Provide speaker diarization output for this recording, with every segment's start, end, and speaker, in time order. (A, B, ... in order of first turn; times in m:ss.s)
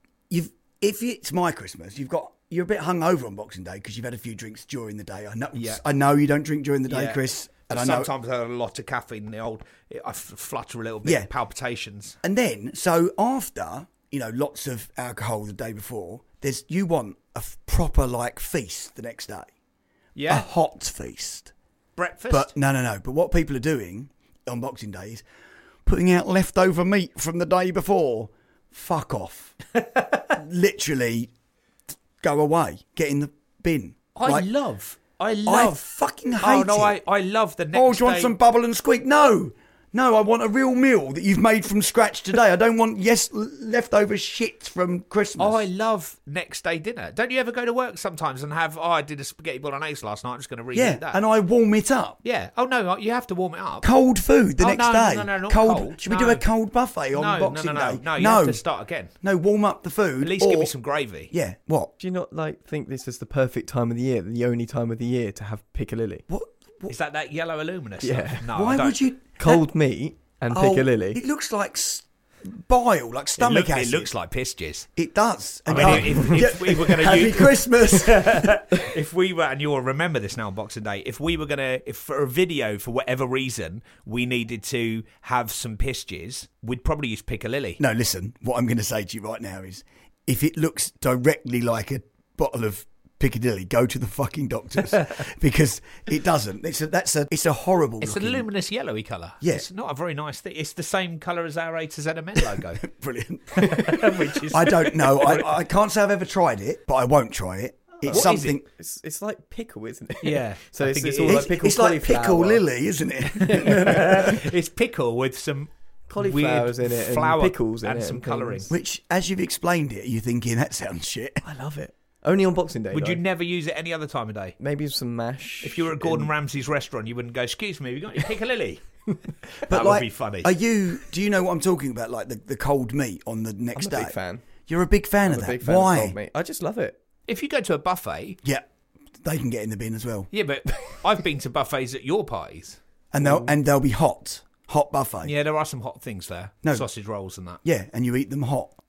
0:00.3-0:08.1 A
0:05.6-0:05.8 B
0:06.9-0:12.2 B
0:11.0-0:11.3 A
0:12.2-0:19.5 A
0:20.2-0:20.5 B
0:20.3-0:21.5 A
0:22.0-0:22.5 B
0:22.3-0:25.2 A
0:25.9-0:29.6 A
0:30.0-0:30.2 B
0:30.3-0:31.3 A
0:32.2-0:34.5 A
0:34.2-0:35.8 B
0:35.5-0:37.0 A
0:36.4-0:38.4 B
0:37.7-0:45.6 A
0:45.4-0:51.2 B
0:50.7-0:52.2 A
0:52.2-0:53.9 B
0:53.8-0:58.6 A
0:54.6-0:56.5 B
0:57.1-0:59.1 B
0:59.2-1:00.8 A
1:00.2-1:01.3 B
1:01.3-1:01.9 A
1:02.0-1:06.2 C
1:06.3-1:07.0 A
1:06.9-1:09.0 B
1:08.0-1:08.5 C
1:08.5-1:09.6 A
1:09.4-1:11.2 C
1:10.5-1:14.1 A
1:13.4-1:14.9 B
1:15.0-1:18.5 A
1:15.7-1:27.8 B
1:15.7-1:16.1 C
1:27.8-1:38.5 A
1:38.0-1:42.8 B
1:39.4-1:39.7 A
1:42.4-1:43.8 A
1:43.6-1:45.5 B
1:44.5-1:48.7 A
1:48.1-1:52.7 C
1:48.1-1:48.6 B
1:50.2-1:51.5 B
1:51.2-1:54.1 A
1:53.4-1:54.2 C
1:53.4-1:58.7 B
1:56.1-1:58.7 C
1:58.7-2:01.4 A
2:01.4-2:03.2 C
2:02.9-2:04.6 B
2:04.6-2:06.3 C
2:05.6-2:10.5 B
2:09.7-2:14.2 A
2:13.8-2:14.5 C
2:14.7-2:16.2 A
2:15.3-2:17.0 C
2:17.3-2:18.4 B
2:19.2-2:20.3 A
2:20.3-2:22.8 B
2:23.1-2:25.3 A
2:23.2-2:23.5 C
2:25.2-2:27.6 B
2:27.6-2:28.8 A